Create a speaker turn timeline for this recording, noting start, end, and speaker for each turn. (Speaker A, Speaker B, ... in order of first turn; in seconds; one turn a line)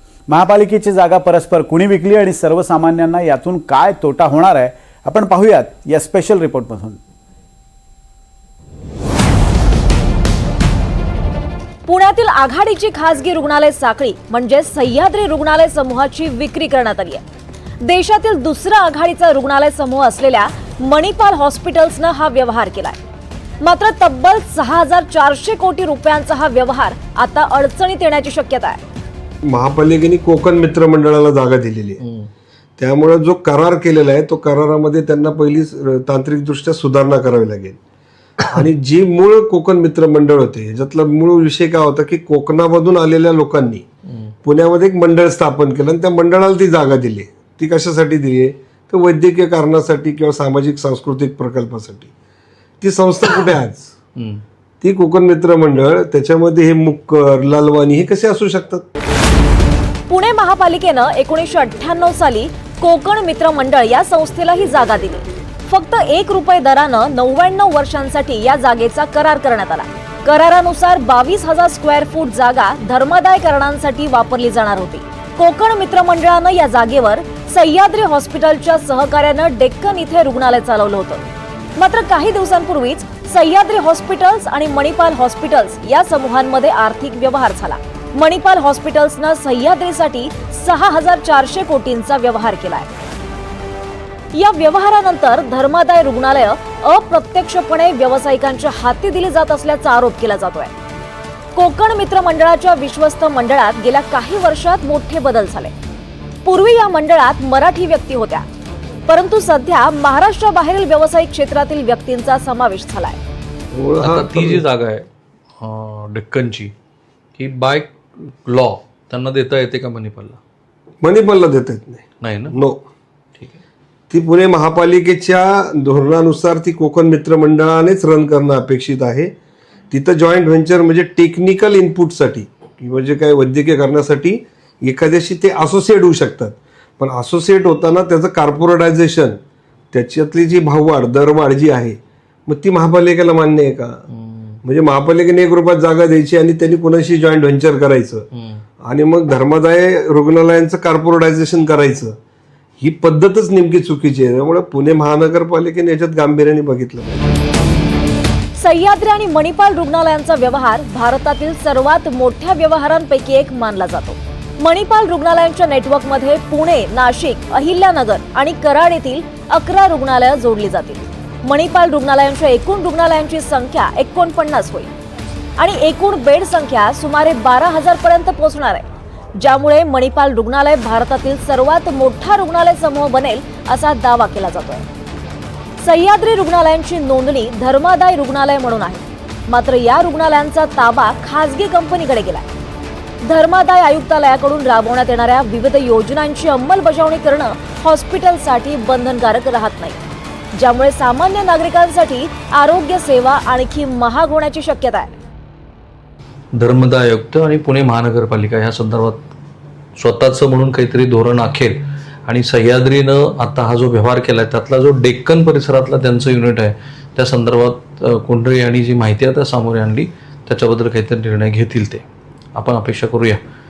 Speaker A: 0.3-7.0
Speaker B: 11.8-17.2
Speaker B: 17.8-23.0
Speaker B: 23.6-28.8
Speaker C: 29.4-32.0
Speaker C: 32.8-37.8
Speaker C: 38.4-43.8
Speaker C: 44.4-52.1
Speaker C: 52.8-53.9
Speaker D: 54.2-54.4
Speaker C: 54.8-58.9
Speaker B: 60.1-81.2
Speaker B: 81.8-92.9
Speaker B: 94.3-100.7
Speaker B: 101.5-105.7
Speaker B: 106.4-108.5
Speaker B: 109.1-113.2
Speaker C: 113.7-114.6
Speaker D: 114.0-115.1
Speaker D: 115.6-116.7
Speaker D: 117.3-120.4
Speaker C: 121.0-122.8
Speaker D: 122.2-122.5
Speaker C: 124.1-129.3
Speaker C: 129.9-139.4
Speaker C: 139.9-144.0
Speaker D: 144.1-144.6
Speaker C: 144.6-148.2
Speaker C: 148.8-152.2
Speaker C: 152.8-157.2
Speaker B: 158.6-174.9
Speaker B: 175.6-178.8
Speaker B: 179.4-184.8
Speaker B: 185.8-192.5
Speaker B: 193.2-200.0
Speaker B: 200.6-205.1
Speaker D: 206.6-209.2
Speaker D: 210.0-223.4